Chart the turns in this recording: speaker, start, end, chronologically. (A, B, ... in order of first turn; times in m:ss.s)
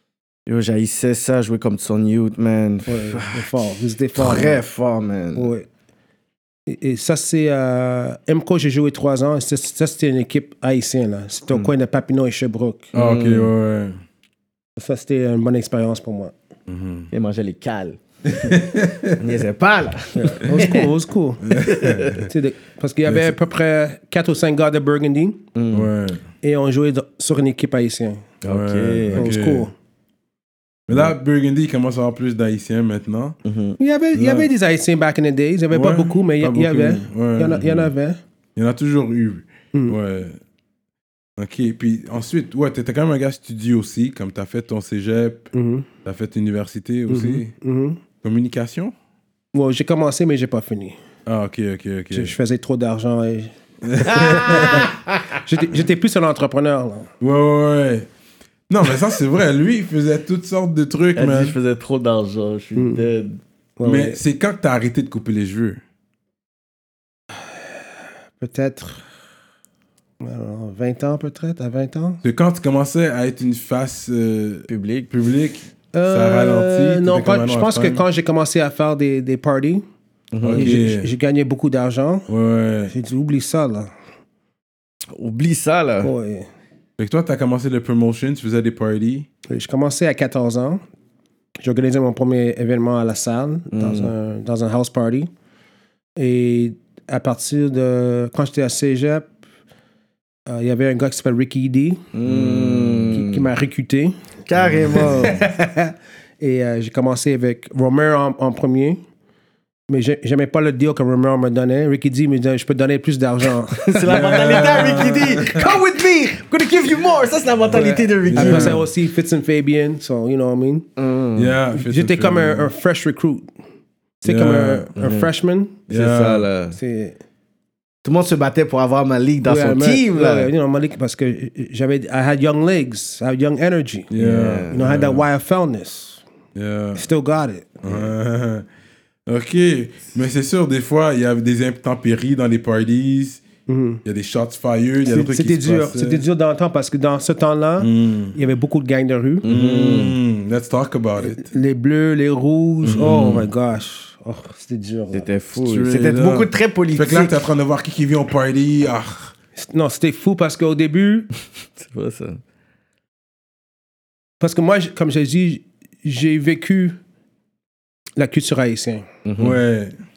0:00.5-0:03.5 A
0:02.9-0:04.6 B
0:04.2-0:05.5 A
0:05.4-0:05.7 B
0:06.7-0:12.9 B
0:12.9-0:13.5 A
0:12.9-0:14.0 C
0:14.8-0:16.3 B
0:16.7-0:17.1 C
0:17.1-0:18.6 A
0:18.3-0:19.2 C
0:19.2-0:20.9 A
0:20.2-0:21.6 B
0:21.4-0:22.3 C
0:21.6-0:22.3 A
0:22.2-0:25.4 B
0:25.6-0:25.9 A
0:25.7-0:26.2 C
0:26.4-0:28.2 B
0:28.4-0:29.3 A
0:28.5-0:29.7 C
0:29.2-0:29.7 B
0:30.9-0:33.4 C
0:33.4-0:33.8 A
0:33.8-0:38.2 B
0:34.1-0:34.5 C
0:35.7-0:37.9 C
0:38.6-0:40.4 C
0:41.4-0:45.5 C
0:45.5-0:45.9 B
0:46.0-0:47.5 C
0:47.1-0:48.0 B
0:48.2-0:48.9 C
0:49.5-0:51.0 B
0:51.3-0:52.3 C
0:52.1-0:57.1 B
0:53.8-0:54.9 C
0:54.1-0:55.4 A
0:57.2-0:58.1 C
0:58.7-1:01.6 C
1:01.2-1:03.4 A
1:02.8-1:03.1 B
1:03.8-1:04.2 B
1:03.8-1:05.8 C
1:08.4-1:09.0 B
1:10.2-1:12.2 B
1:12.2-1:18.0 C
1:14.7-1:15.1 A
1:15.9-1:19.8 B
1:20.3-1:20.8 A
1:20.4-1:21.1 C
1:20.5-1:22.3 B
1:22.3-1:22.9 C
1:22.9-1:23.9 B
1:25.1-1:26.1 A
1:26.0-1:26.5 B
1:27.0-1:29.3 C
1:29.5-1:30.8 B
1:31.6-1:35.3 B
1:33.7-1:34.1 A
1:36.2-1:39.3 B
1:40.5-1:42.1 B
1:42.1-1:43.5 A
1:42.3-1:43.0 C
1:43.0-1:44.2 B
1:44.5-1:45.4 A
1:44.6-1:45.2 C
1:44.9-1:49.0 B
1:49.9-1:55.2 B
1:53.8-1:58.8 A
1:54.1-1:55.7 C
1:57.7-1:58.8 C
1:57.7-2:00.9 B
2:01.0-2:01.6 A
2:01.4-2:02.7 C
2:01.7-2:03.5 B
2:04.2-2:05.8 B
2:04.3-2:04.9 C
2:05.0-2:05.3 A
2:05.9-2:06.8 A
2:05.9-2:06.5 C
2:06.7-2:07.2 B
2:08.0-2:10.5 A
2:09.4-2:14.1 B
2:14.1-2:15.3 C
2:14.2-2:14.8 A
2:14.7-2:16.2 B
2:16.6-2:17.0 C
2:17.0-2:17.8 B
2:17.8-2:18.6 C
2:19.3-2:23.4 C
2:23.7-2:24.0 B
2:24.0-2:26.2 C
2:25.0-2:29.4 B
2:27.8-2:28.4 C
2:29.4-2:30.2 A
2:29.4-2:31.5 C
2:31.2-2:35.3 B
2:32.8-2:33.2 A
2:32.9-2:33.5 C
2:35.1-2:37.4 A
2:35.6-2:39.3 C
2:39.6-2:41.3 B
2:41.8-2:42.4 A
2:44.4-2:47.0 B
2:48.2-2:49.1 B
2:49.2-2:49.6 A
2:49.4-2:49.9 C